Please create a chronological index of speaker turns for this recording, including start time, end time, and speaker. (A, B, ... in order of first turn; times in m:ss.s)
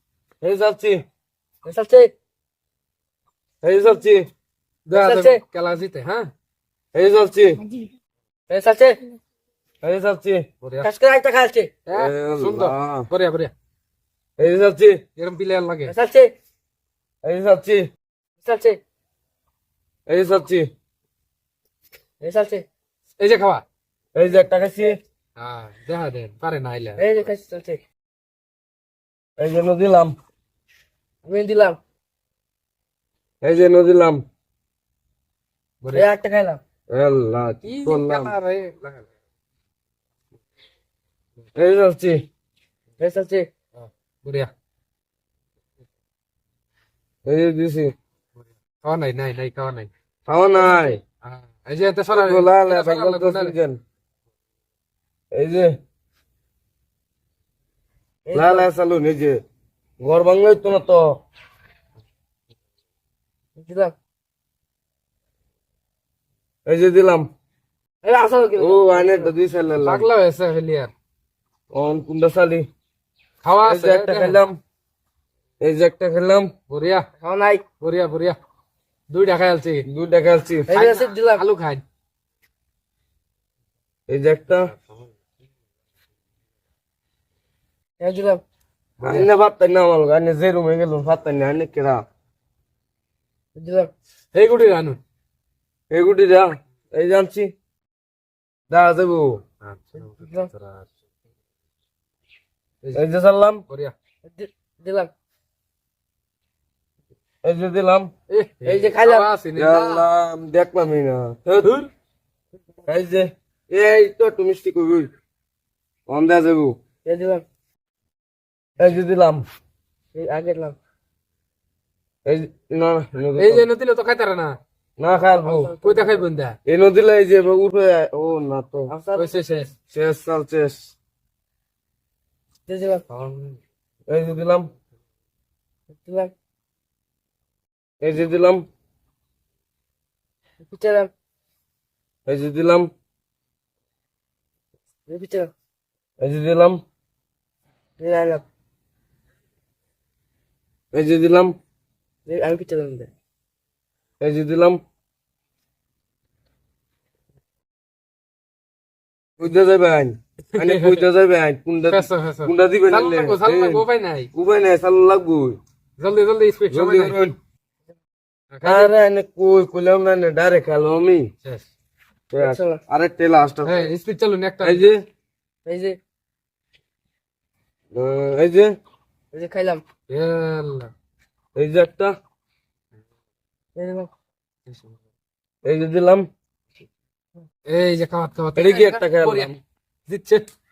0:00.4-0:01.0 A
0:01.6-0:02.1 B
0:03.6-0:04.3 A
0:04.9-0:06.3 C
0:04.9-0:05.4 B
0:06.9-0:07.6 A
0:08.5-0:09.0 B
0:09.8-0:10.5 A
0:10.6-0:10.9 C
0:10.8-0:11.7 B
0:11.9-0:13.5 C
0:11.9-0:13.1 A
0:14.4-0:15.0 A
0:15.2-0:15.9 C
0:15.9-0:16.3 B
0:17.2-0:17.9 A
0:18.4-0:18.8 B
0:20.1-0:20.7 A
0:22.2-0:22.7 B
0:23.2-0:23.6 C
0:24.1-0:25.0 A
0:25.4-0:27.0 C
0:27.0-0:27.8 B
0:29.4-0:30.2 A
0:31.2-0:31.8 B
0:33.4-0:34.2 A
0:35.8-0:36.1 C
0:35.9-0:36.6 B
0:36.9-0:38.3 A
0:37.6-0:39.1 C
0:41.6-0:42.3 A
0:43.0-0:43.5 B
0:43.8-0:44.5 C
0:47.2-0:47.9 A
0:48.8-0:49.9 C
0:50.3-0:51.0 A
0:50.6-0:51.0 B
0:51.2-0:53.6 C
0:52.1-0:53.8 A
0:55.3-0:55.8 A
0:58.3-0:58.7 B
0:58.3-0:59.4 A
1:00.0-1:01.2 A
1:03.6-1:04.0 B
1:06.7-1:07.3 A
1:08.0-1:09.3 B
1:08.6-1:10.1 A
1:09.8-1:10.9 C
1:11.7-1:12.7 A
1:13.4-1:14.4 C
1:13.6-1:14.6 A
1:15.6-1:16.5 A
1:16.7-1:17.1 C
1:17.2-1:17.6 B
1:17.8-1:18.4 C
1:19.1-1:19.9 C
1:19.9-1:20.7 A
1:20.7-1:21.4 B
1:20.7-1:21.8 C
1:24.1-1:24.7 A
1:28.0-1:28.4 B
1:29.0-1:32.0 A
1:33.6-1:33.9 B
1:34.3-1:35.0 C
1:35.9-1:37.5 A
1:38.7-1:39.4 A
1:39.6-1:40.9 C
1:40.0-1:40.5 B
1:42.9-1:43.6 A
1:43.7-1:43.9 C
1:44.2-1:45.1 B
1:47.4-1:48.1 A
1:48.3-1:50.1 C
1:48.6-1:49.3 B
1:49.6-1:51.8 A
1:51.6-1:51.9 C
1:52.9-1:55.1 A
1:56.1-1:56.8 A
1:57.0-1:57.4 B
1:58.8-1:59.4 A
2:00.1-2:00.8 B
2:02.2-2:03.7 A
2:03.4-2:04.6 C
2:05.0-2:05.7 A
2:05.4-2:06.3 B
2:05.7-2:06.6 C
2:06.7-2:08.9 A
2:08.9-2:09.3 B
2:09.2-2:09.7 C
2:09.9-2:10.9 A
2:12.7-2:13.1 B
2:13.1-2:13.6 C
2:14.1-2:14.7 A
2:16.0-2:16.3 B
2:18.0-2:18.7 A
2:20.7-2:21.1 B
2:22.3-2:22.9 A
2:25.1-2:25.5 B
2:26.2-2:26.8 A
2:28.0-2:28.4 B
2:30.9-2:31.6 A
2:32.3-2:33.1 B
2:34.2-2:34.8 A
2:39.4-2:45.6 A
2:40.5-2:41.0 C
2:41.9-2:44.3 C
2:46.0-2:47.2 C
2:46.7-2:47.4 A
2:48.5-2:48.9 C
2:48.6-2:51.3 A
2:52.3-2:53.9 A
2:52.4-2:52.8 B
2:53.6-2:54.9 C
2:54.6-2:55.1 A
2:55.6-2:56.0 B
2:57.9-2:58.7 A
2:59.3-2:59.8 B
3:00.1-3:00.9 C
3:01.6-3:02.1 A
3:03.8-3:04.1 B
3:05.6-3:06.3 A
3:07.7-3:09.5 C
3:08.6-3:09.6 A
3:10.1-3:10.5 C